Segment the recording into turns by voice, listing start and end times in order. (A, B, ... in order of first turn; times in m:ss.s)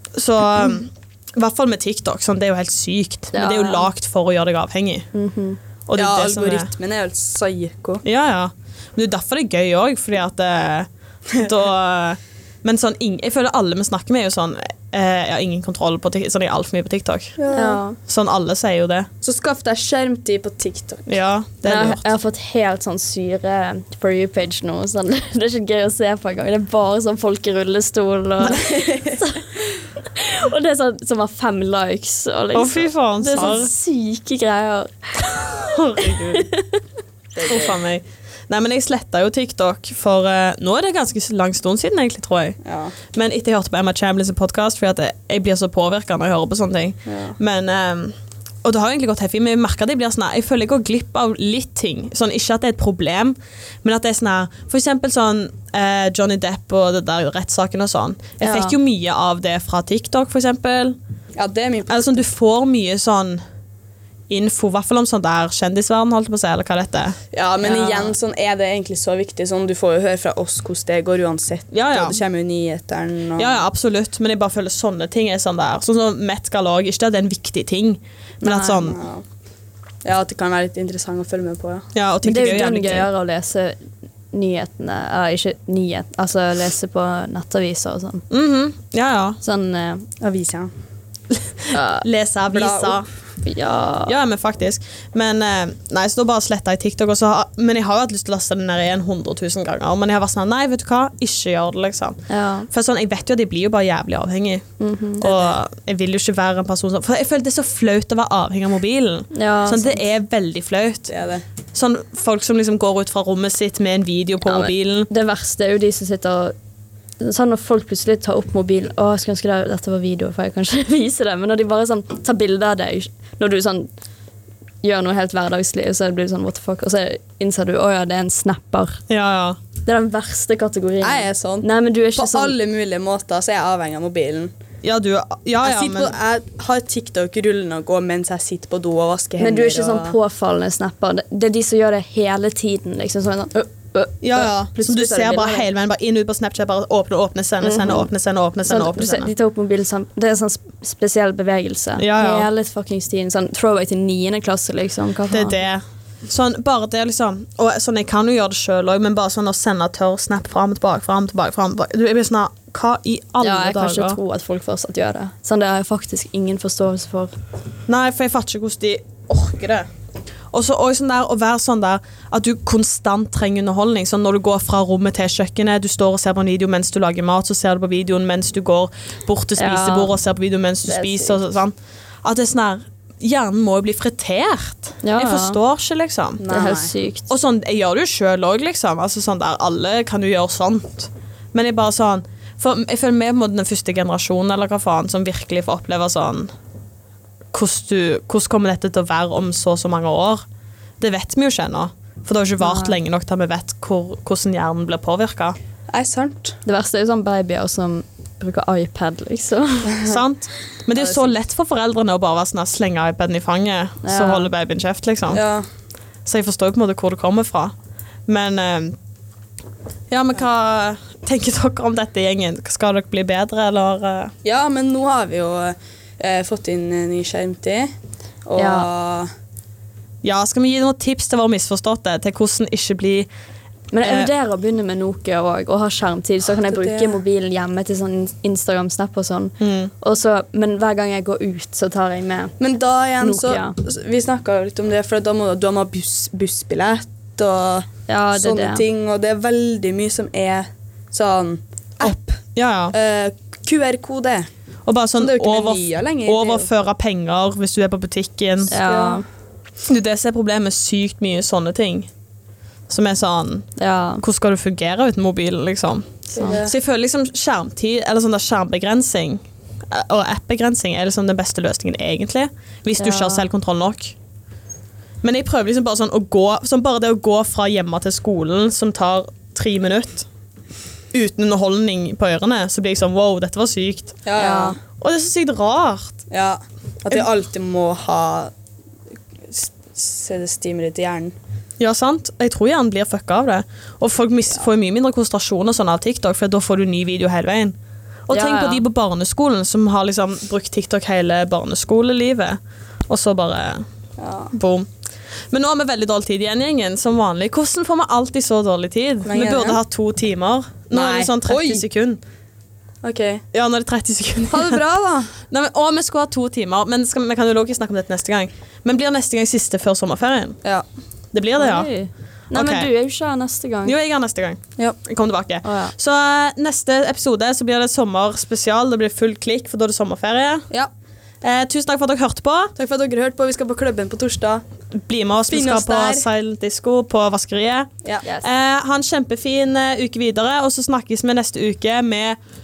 0:00.1-0:05.1 A
0:03.3-0:03.9 B
0:05.1-0:05.6 B
0:05.9-0:06.7 A
0:06.0-0:08.0 C
0:08.0-0:17.4 A
0:17.4-0:17.8 C
0:17.5-0:18.0 B
0:18.0-0:19.1 A
0:19.2-0:21.1 C
0:21.1-0:22.1 A
0:21.6-0:36.8 B
0:28.6-0:29.2 C
0:32.5-0:33.7 A
0:35.7-0:36.5 A
0:37.3-0:37.8 C
0:37.4-0:42.6 A
0:42.6-0:42.9 C
0:43.1-1:01.0 A
0:47.0-0:47.4 C
0:58.4-0:58.8 B
1:01.4-1:02.2 C
1:01.9-1:03.4 A
1:04.3-1:07.2 A
1:07.3-1:13.6 C
1:07.6-1:08.1 B
1:11.7-1:12.2 A
1:13.4-1:19.0 A
1:18.4-1:18.8 B
1:18.8-1:19.2 C
1:20.0-1:21.9 C
1:21.9-1:23.1 A
1:22.2-1:23.8 B
1:24.3-1:28.2 B
1:28.3-1:29.4 A
1:29.4-1:30.1 B
1:30.2-1:30.7 C
1:31.3-1:33.1 A
1:31.7-1:32.0 B
1:32.5-1:33.0 C
1:33.4-1:34.1 B
1:34.0-1:44.6 A
1:42.3-1:42.7 B
1:44.8-1:45.3 B
1:45.2-1:51.1 A
1:45.2-1:45.5 C
1:49.3-1:50.0 B
1:51.1-1:51.4 C
1:51.7-1:55.1 A
1:54.4-1:56.5 B
1:57.2-2:03.9 B
2:04.8-2:09.0 B
2:09.1-2:09.6 A
2:09.8-2:12.5 B
2:11.0-2:14.5 C
2:14.8-2:16.1 A
2:15.6-2:20.2 C
2:19.4-2:25.6 B
2:24.2-2:29.3 A
2:27.6-2:28.1 B
2:28.6-2:35.6 B
2:32.0-2:32.5 A
2:35.3-2:44.2 A
2:43.4-2:47.3 B
2:47.9-2:49.9 A
2:50.5-3:06.5 A
2:59.6-3:00.1 B
3:00.9-3:01.4 B
3:05.0-3:05.6 B
3:06.4-3:06.9 C
3:06.5-3:07.3 B
3:07.3-3:16.5 A
3:17.5-3:20.4 A
3:21.0-3:25.6 A
3:22.6-3:23.0 B
3:25.9-3:26.6 C
3:26.6-3:30.2 B
3:30.0-3:35.4 A
3:30.9-3:31.3 C
3:34.0-3:34.5 B
3:35.3-3:35.6 C
3:36.2-3:37.7 A
3:38.3-3:39.0 A
3:40.1-3:44.3 A
3:44.4-3:47.9 C
3:48.4-3:49.3 C
3:48.6-3:48.9 B
3:50.2-3:53.3 A
3:53.9-4:02.6 B
3:54.0-3:54.3 A
3:56.6-3:57.2 C
3:59.6-3:59.9 A
4:02.6-4:14.5 C
4:03.2-4:03.8 B
4:08.1-4:08.8 B
4:12.0-4:12.9 A
4:14.8-4:18.8 A
4:15.2-4:16.7 C
4:18.7-4:19.2 B
4:18.8-4:19.2 C
4:19.8-4:22.1 A
4:22.9-4:23.7 A
4:23.8-4:24.2 B
4:24.2-4:34.2 A
4:26.3-4:26.7 C
4:26.3-4:26.6 B
4:33.0-4:33.5 B
4:35.2-4:40.3 A
4:41.1-4:44.2 A
4:44.2-4:44.8 C
4:44.4-4:44.8 B
4:44.9-4:46.2 A
4:46.3-4:48.5 C
4:49.5-4:51.3 C
4:51.8-4:57.8 A
4:58.3-5:03.8 A
4:58.3-4:58.8 B
5:04.2-5:04.5 C
5:04.5-5:04.9 A
5:05.5-5:12.2 A
5:09.2-5:09.8 C
5:10.9-5:11.8 C
5:13.0-5:13.4 C
5:13.5-5:14.8 A
5:14.5-5:15.3 C
5:15.4-5:20.6 A
5:21.3-5:21.9 A
5:21.6-5:23.9 B
5:22.5-5:22.9 A
5:23.8-5:30.6 A
5:25.6-5:25.9 B
5:31.4-5:32.7 A
5:32.8-5:34.6 C
5:34.9-5:37.9 A
5:35.5-5:36.2 C
5:38.4-5:42.4 A